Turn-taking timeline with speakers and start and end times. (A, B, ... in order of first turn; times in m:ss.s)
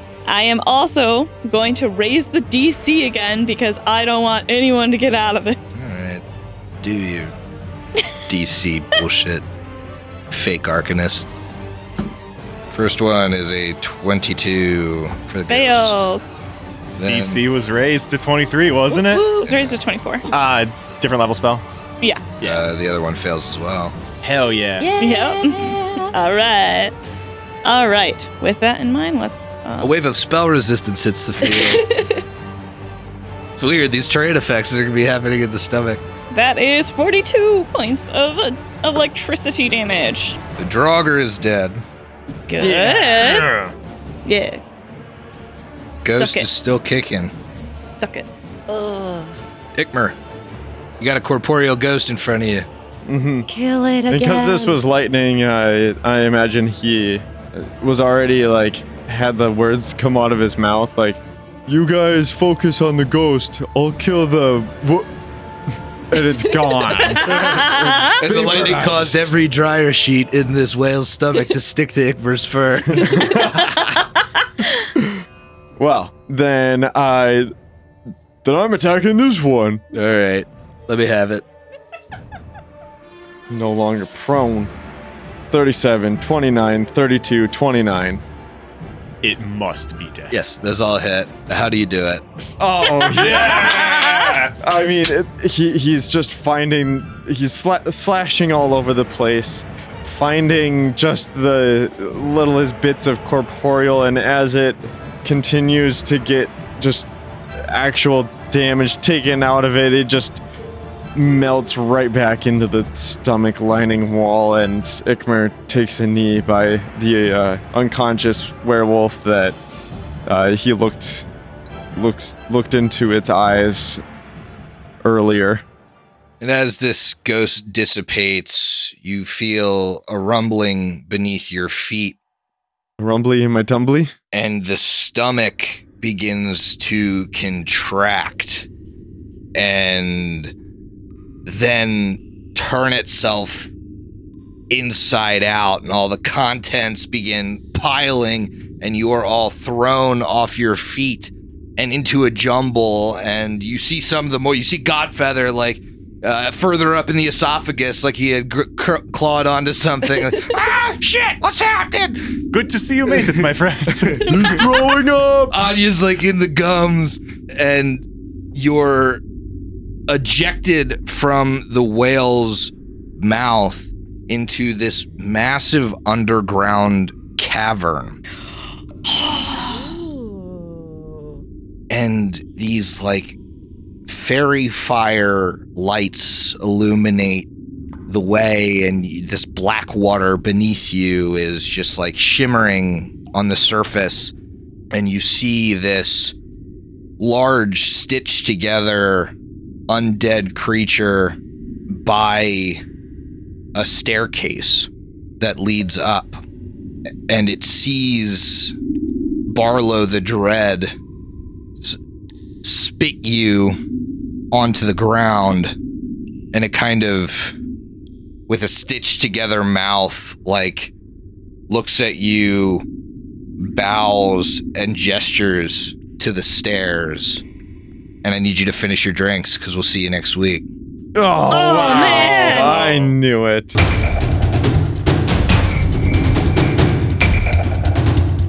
0:00.2-0:05.6 A
0:05.7-0:06.2 B
0:06.8-0:07.4 B
0:08.3-0:09.4 B
0:10.3-0:11.3 B
0:12.7-0:16.0 B
0:15.5-0:16.4 A
0:17.0-0:17.4 B
0:17.0-0:19.4 C
0:18.9-0:19.5 D
0:19.3-0:20.3 A
0:20.3-0:21.6 C
0:22.0-0:22.3 A
0:22.4-0:22.6 C
0:22.4-0:23.9 B
0:24.2-0:24.9 C
0:24.8-0:26.1 D
0:25.0-0:26.9 A
0:27.6-0:29.9 A
0:29.8-0:31.9 B
0:31.6-0:32.2 D
0:33.6-0:36.0 B
0:36.3-0:40.4 A
0:40.6-0:41.8 B
0:42.5-0:43.5 A
0:42.6-0:43.6 E
0:42.6-0:43.6 C
0:44.2-0:44.6 A
0:45.9-0:46.5 A
0:46.0-0:47.3 B
0:47.7-0:48.3 A
0:48.7-0:49.4 D
0:49.8-0:50.2 B
0:51.0-0:52.7 B
0:53.0-0:53.5 E
0:53.5-0:54.8 D
0:54.1-1:05.1 E
1:06.1-1:09.3 E
1:07.3-1:08.2 A
1:08.2-1:13.7 B
1:12.9-1:14.0 E
1:15.0-1:15.2 E
1:15.8-1:17.5 E
1:18.4-1:19.8 E
1:19.9-1:21.4 B
1:23.5-1:24.7 E
1:25.5-1:28.2 E
1:29.2-1:30.4 C
1:30.3-1:32.2 B
1:32.6-1:47.1 E
1:33.1-1:34.5 C
1:47.6-1:50.4 E
1:51.1-1:59.6 E
2:00.3-2:01.2 E
2:01.9-2:04.0 E
2:05.0-2:05.6 E
2:06.4-2:12.2 B
2:13.0-2:14.1 E
2:14.3-2:18.7 B
2:19.6-2:20.6 B
2:21.4-2:23.7 B
2:24.7-2:42.3 B
2:42.5-2:44.6 C
2:44.2-2:45.6 E
2:45.5-2:49.2 B
2:50.1-2:58.2 B
2:59.5-3:01.2 D
3:01.9-3:03.4 B
3:04.0-3:07.5 B
3:08.1-3:14.3 B
3:14.9-3:16.3 B
3:17.2-3:19.3 B
3:19.9-3:22.8 B
3:23.7-3:26.4 B
3:27.3-3:28.7 B
3:29.5-3:31.0 B
3:32.6-3:33.8 B
3:34.5-3:35.8 B
3:36.5-3:37.6 B
3:38.5-3:40.9 B
3:41.7-3:42.8 B
3:43.6-3:47.4 B
3:48.2-3:50.6 B
3:51.1-3:53.8 E
3:51.5-3:53.1 A